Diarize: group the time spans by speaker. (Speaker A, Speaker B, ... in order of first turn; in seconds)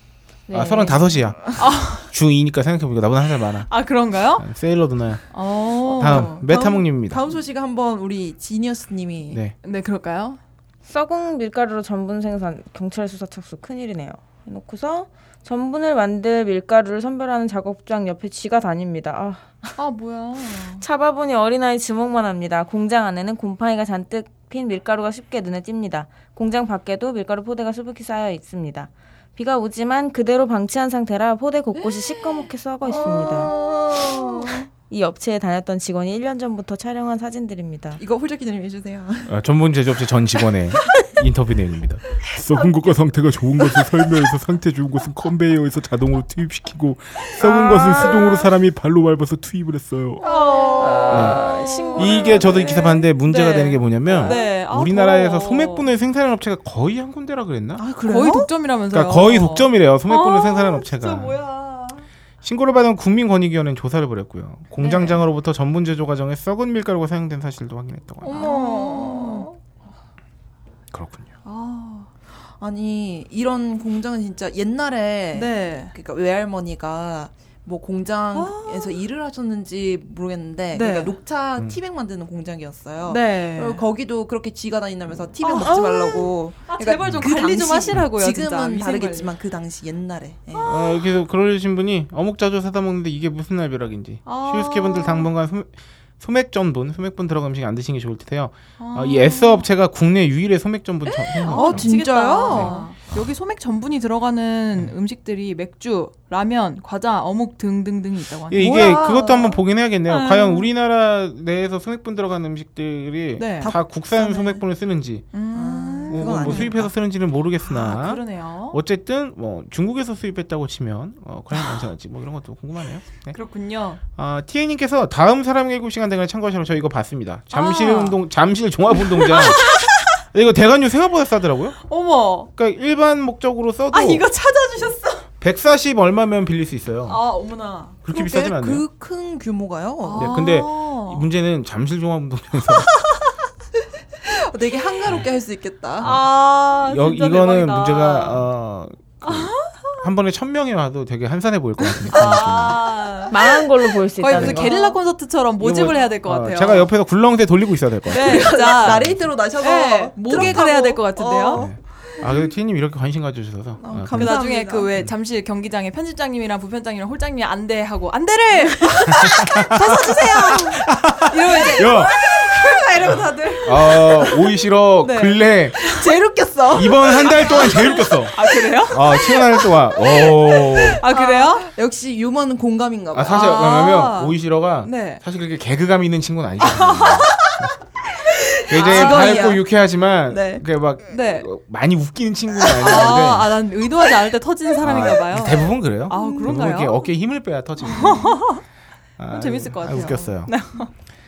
Speaker A: 0.5-1.2, 10.9-19.7, 20.8-33.5, 34.9-38.0, 50.8-52.6, 153.3-155.0
Speaker B: 0.5-3.7, 4.4-7.3, 39.3-50.2, 51.1-51.4, 52.0-57.8, 58.9-61.4, 62.4-68.5, 70.9-71.3, 87.0-87.3, 90.6-101.9, 102.5-102.7, 108.5-115.3, 116.1-123.4, 124.2-131.8, 132.6-134.3, 135.4-137.2, 138.0-138.8, 140.1-142.9, 146.8-153.0, 154.3-154.7, 155.6-159.2, 160.3-160.6, 161.5-164.3, 169.1-172.2, 173.6-175.9, 176.7-181.0, 183.1-187.7, 188.7-193.6, 194.8-198.4, 199.2-200.6
Speaker C: 1.6-2.1, 3.7-4.5, 5.3-6.4, 9.6-10.4, 19.8-20.8, 47.2-48.4, 50.2-55.9, 58.0-62.0, 64.8-65.2, 68.2-69.5, 71.4-72.1, 75.3-75.9, 78.3-79.0, 80.7-81.2, 83.1-83.8, 85.4-89.3, 90.5-90.9, 94.2-95.3, 98.8-99.7, 101.1-109.0, 110.1-110.7, 113.4-113.8, 115.3-116.7, 117.6-118.8, 123.3-124.0, 127.5-128.2, 128.9-130.2, 131.8-132.5, 133.9-135.2, 137.1-138.0, 140.0-141.3, 146.0-148.5, 149.2-150.1, 152.0-156.9, 158.1-161.7, 164.1-173.8, 175.0-176.0, 177.2-179.4, 180.3-181.7, 183.3-185.2, 186.6-187.5, 188.7-189.5, 191.1-191.5, 192.7-197.1, 197.8-198.6, 199.3-200.9
Speaker D: 6.0-9.4, 32.9-34.7, 38.0-39.4, 50.2-51.3, 57.8-58.5, 68.2-69.5, 72.6-90.8, 101.5-102.9, 108.6-109.6, 113.6-114.5, 115.5-116.9, 138.1-140.4, 144.2-146.1, 158.1-162.2, 163.8-164.9, 169.8-174.4, 175.0-178.5, 180.9-183.5, 188.2-189.6, 190.3-190.6, 196.1-196.5